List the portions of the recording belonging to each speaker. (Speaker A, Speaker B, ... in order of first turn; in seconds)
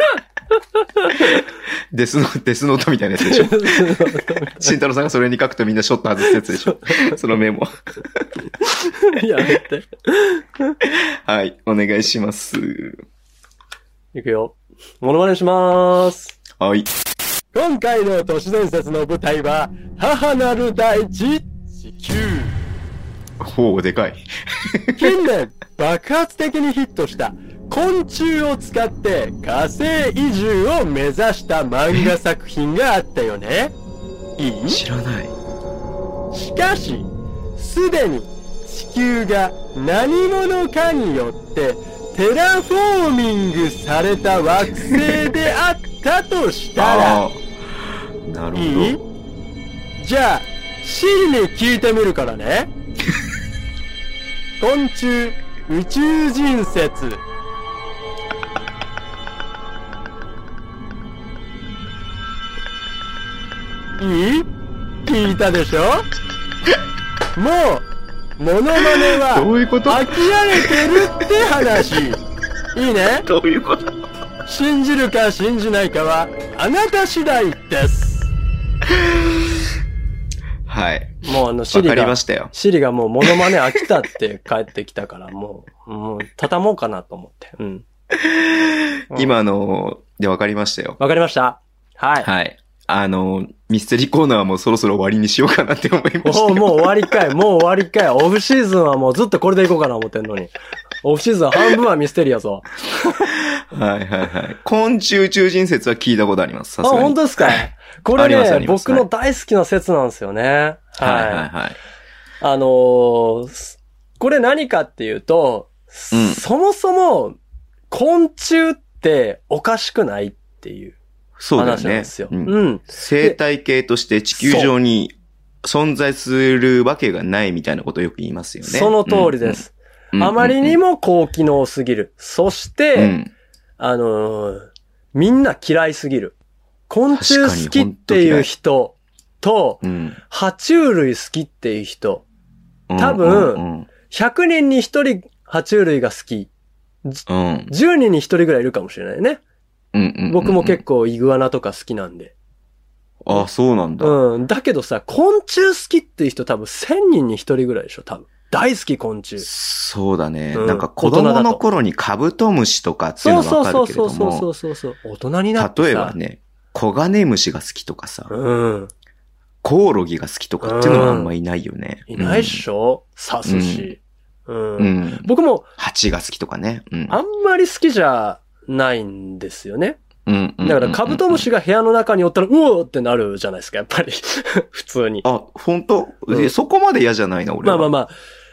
Speaker A: 1.2-8.2, 10.8-13.0, 16.6-16.9, 23.4-25.1, 34.7-35.3, 46.8-47.5, 48.2-49.0, 69.1-71.1, 73.2-74.0, 78.9-79.3, 80.7-82.5, 83.2-83.5, 88.1-91.0, 92.2-97.1, 103.3-109.1, 111.0-111.8, 116.1-116.4, 121.4-129.6, 130.1-130.8, 132.9-133.3, 137.1-138.5, 139.8-140.2, 142.9-143.9, 147.3-147.7, 149.9-150.8, 153.2-154.2, 159.4-164.5, 165.6-168.3, 169.6-172.6, 173.4-173.9, 174.8-177.2, 180.2-181.4, 185.2-187.9
Speaker B: 3.2-4.8, 6.7-7.1, 8.8-10.8, 14.1-16.4, 17.5-22.6, 24.9-33.7, 34.4-34.8, 36.3-47.2, 48.5-49.0, 50.0-52.7, 54.6-57.2, 64.0-64.5, 65.0-66.0, 67.3-67.8, 68.4-72.2, 72.7-73.3, 74.5-78.3, 81.2-87.8, 91.0-92.3, 96.2-100.5, 101.0-103.3, 106.8-111.5, 112.4-117.4, 117.9-121.0, 121.6-123.4, 124.3-124.7, 128.6-133.1, 133.8-136.3, 136.9-142.2, 143.0-146.5, 147.0-149.4, 150.3-152.3, 154.0-159.4, 160.5-161.6, 163.2-166.2, 168.3-168.9, 170.6-171.3, 172.1-175.7, 177.1-180.0, 180.6-185.2, 187.6-188.1